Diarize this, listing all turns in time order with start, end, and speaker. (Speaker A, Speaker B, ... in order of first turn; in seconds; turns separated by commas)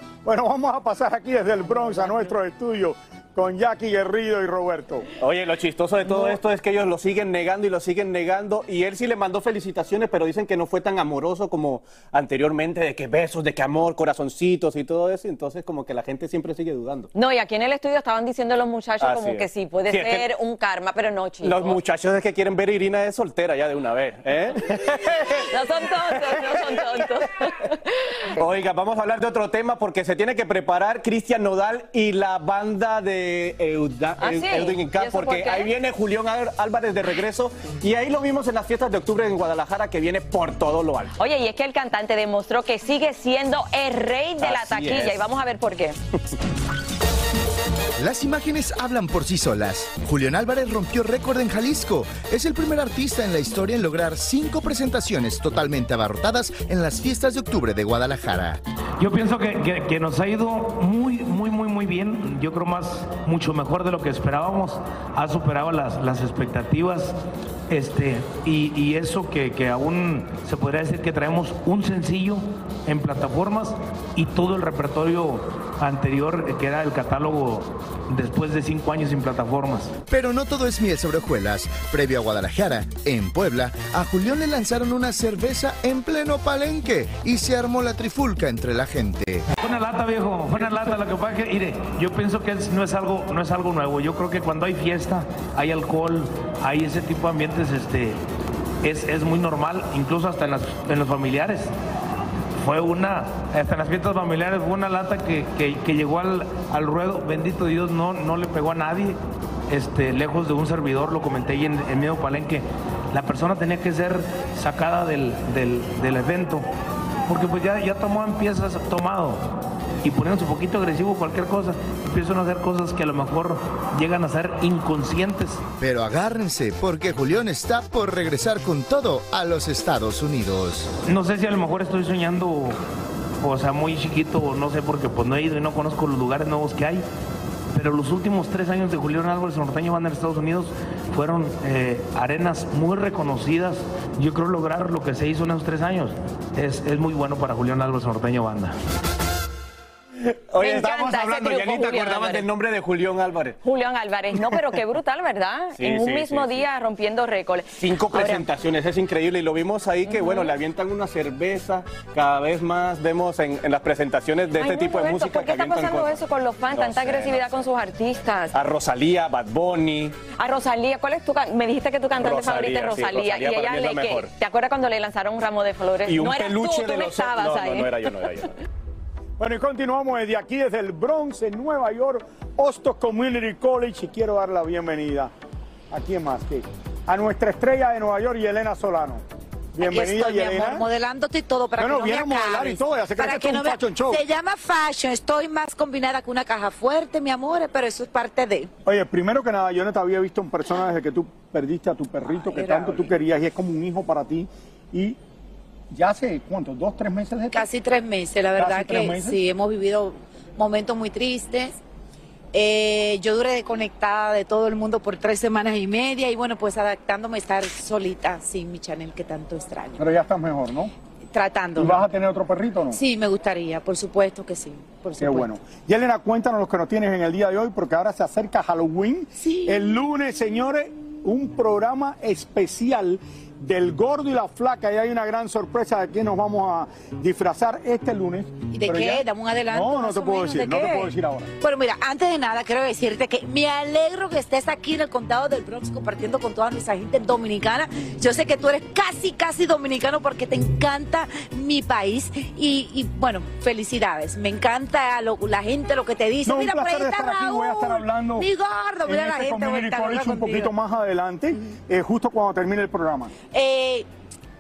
Speaker A: 0.2-5.1, Speaker B: 5.2-17.1, Speaker A: 6.0-6.3, Speaker C: 17.1-21.8, Speaker B: 19.0-20.2, Speaker B: 21.4-25.4, Speaker C: 25.5-28.4, Speaker B: 28.4-41.1, Speaker C: 34.2-35.7, Speaker C: 41.2-46.0, Speaker B: 44.4-45.1, Speaker D: 48.0-58.6, Speaker E: 59.0-67.2, Speaker E: 67.7-79.9, Speaker D: 80.1-89.5, Speaker E: 89.6-98.2, Speaker E: 98.8-101.7, Speaker E: 102.6-116.7, Speaker E: 117.3-119.5, Speaker E: 120.0-125.6, Speaker D: 125.8-130.9, Speaker E: 131.1-132.8, Speaker E: 133.4-137.1, Speaker E: 137.7-148.8, Speaker B: 150.5-153.6, Speaker C: 150.6-152.5, Speaker C: 153.6-158.5, Speaker B: 155.8-156.6, Speaker B: 157.8-166.2, Speaker C: 160.1-160.5, Speaker C: 164.6-168.6, Speaker B: 166.7-167.4, Speaker B: 168.5-170.2, Speaker C: 170.4-177.9, Speaker B: 172.2-174.3, Speaker B: 176.1-178.5, Speaker A: 179.4-185.3, Speaker A: 185.9-189.2, Speaker A: 189.8-190.8, Speaker F: 189.8-198.7, Speaker A: 191.8-194.2, Speaker A: 198.9-205.2, Speaker F: 202.3-203.1, Speaker A: 205.9-207.7, Speaker F: 207.5-211.8, Speaker A: 208.6-209.4, Speaker F: 212.5-220.0, Speaker A: 220.0-220.9, Speaker F: 221.3-222.0, Speaker A: 221.8-223.0, Speaker F: 222.9-225.5, Speaker A: 225.2-241.5, Speaker F: 229.4-230.0, Speaker F: 238.7-260.7, Speaker A: 256.5-258.5, Speaker A: 259.1-263.3, Speaker F: 263.5-264.1